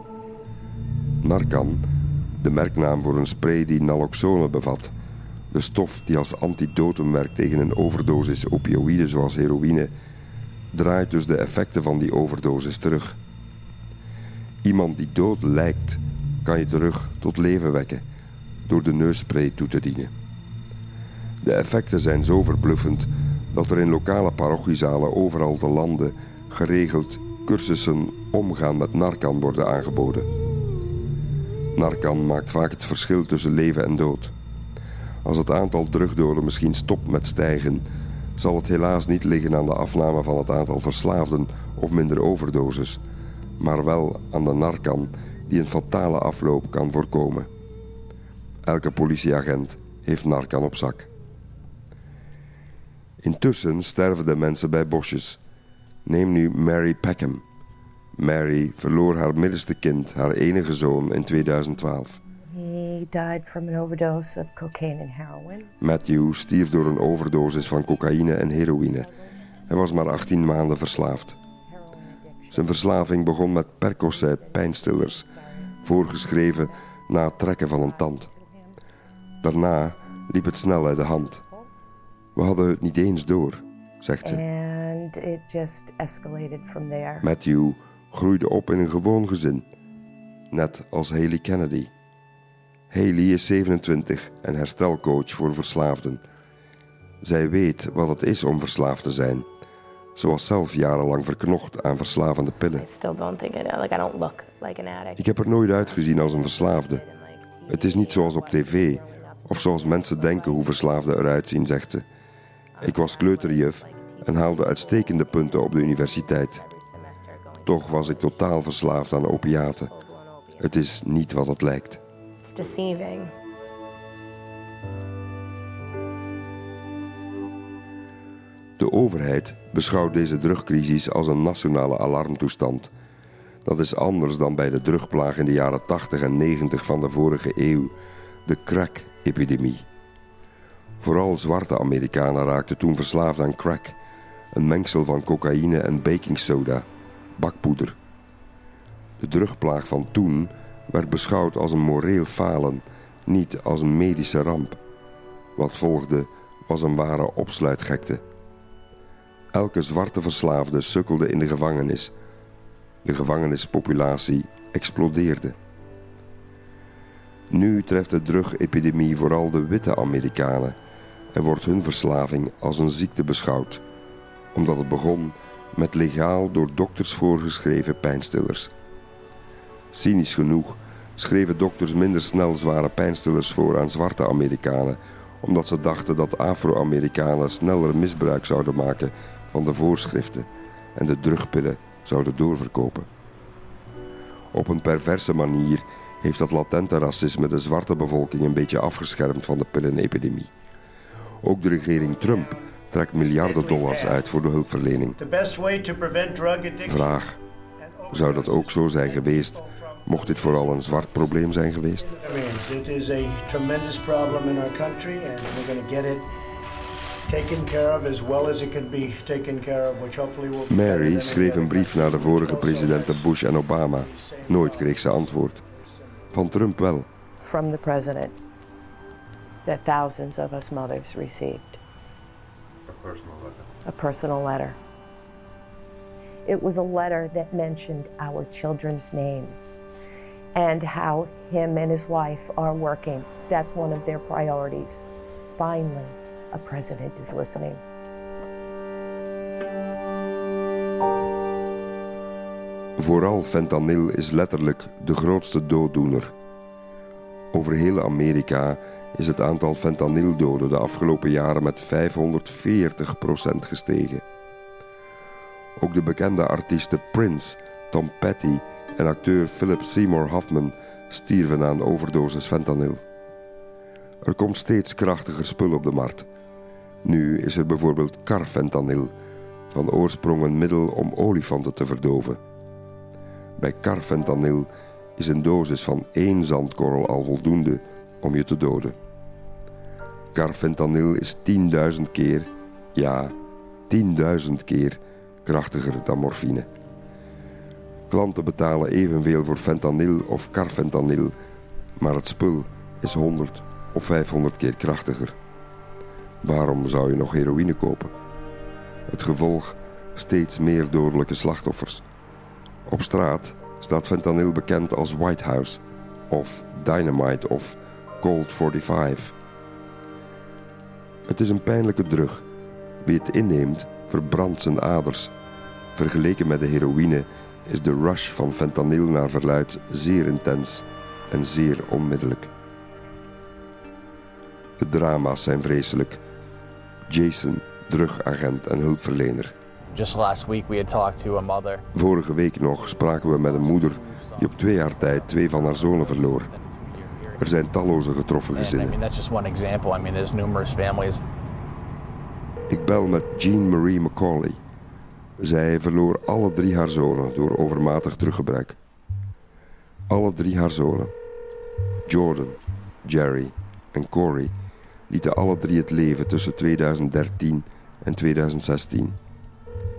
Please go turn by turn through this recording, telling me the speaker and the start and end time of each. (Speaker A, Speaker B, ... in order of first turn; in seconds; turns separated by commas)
Speaker A: 1.2-1.8, Speaker A: 2.4-4.9, Speaker A: 5.5-9.9, Speaker A: 10.7-13.2, Speaker A: 14.6-18.0, Speaker A: 18.6-20.1, Speaker A: 21.4-30.3, Speaker A: 31.7-34.3, Speaker A: 35.2-37.9, Speaker A: 38.4-43.0, Speaker A: 43.6-47.5, Speaker A: 48.6-51.1, Speaker A: 53.2-55.4, Speaker A: 56.0-57.4, Speaker A: 58.2-62.2, Speaker B: 62.5-65.7, Speaker A: 65.8-69.1, Speaker B: 68.1-69.3, Speaker A: 69.7-71.4, Speaker B: 71.7-72.9, Speaker A: 72.5-75.3, Speaker B: 74.0-77.1, Speaker A: 75.8-78.3, Speaker B: 77.6-78.8, Speaker A: 79.4-81.4, Speaker B: 81.0-81.7, Speaker A: 82.3-84.4, Speaker B: 84.2-87.3, Speaker A: 87.2-89.7, Speaker A: 90.5-91.9, Speaker A: 92.9-96.2, Speaker A: 97.2-99.5, Speaker A: 100.2-102.8, Speaker C: 102.7-111.0, Speaker A: 105.2-107.0, Speaker A: 107.7-112.0, Speaker C: 112.7-120.8, Speaker A: 112.8-116.6, Speaker A: 117.6-119.9, Speaker A: 120.6-122.0, Speaker C: 122.4-123.3, Speaker A: 128.8-132.9, Speaker A: 133.6-137.9, Speaker A: 138.4-139.8, Speaker A: 141.0-144.0, Speaker A: 144.5-146.8, Speaker A: 147.4-148.0, Speaker A: 149.2-154.8, Speaker A: 155.6-158.2, Speaker A: 159.5-162.1, Speaker A: 163.0-165.6, Speaker A: 167.5-170.8, Speaker A: 171.3-173.8, Speaker A: 174.5-178.7, Speaker A: 179.9-193.1, Speaker A: 194.5-200.5, Speaker A: 201.4-205.2, Speaker D: 201.7-204.3, Speaker D: 205.2-207.2, Speaker A: 206.8-207.4, Speaker D: 207.8-216.3, Speaker A: 208.1-212.1, Speaker D: 217.3-226.5, Speaker A: 220.7-225.6, Speaker A: 226.3-227.1, Speaker B: 227.4-228.3, Speaker B: 229.6-231.8, Speaker A: 233.0-233.6, Speaker B: 233.8-234.8, Speaker B: 236.4-239.8, Speaker B: 240.5-247.8, Speaker A: 253.0-256.3, Speaker A: 257.5-264.2, Speaker A: 265.8-273.0, Speaker A: 274.2-276.3, Speaker A: 277.0-279.1, Speaker A: 279.7-282.4, Speaker A: 283.6-288.9, Speaker A: 290.3-293.3, Speaker A: 293.9-296.7, Speaker A: 298.1-301.3, Speaker A: 302.0-305.4, Speaker A: 306.4-308.1, Speaker A: 309.1-312.0, Speaker A: 312.9-319.3, Speaker A: 321.3-322.4, Speaker A: 323.0-325.3, Speaker A: 325.9-332.5, Speaker A: 334.8-336.2, Speaker A: 337.1-339.5, Speaker E: 339.9-341.8, Speaker A: 341.9-346.5, Speaker E: 342.8-347.6, Speaker A: 347.4-349.0, Speaker E: 348.5-351.2, Speaker A: 352.7-354.6, Speaker A: 355.4-358.8, Speaker A: 360.1-361.1, Speaker A: 362.1-364.5, Speaker A: 365.1-369.2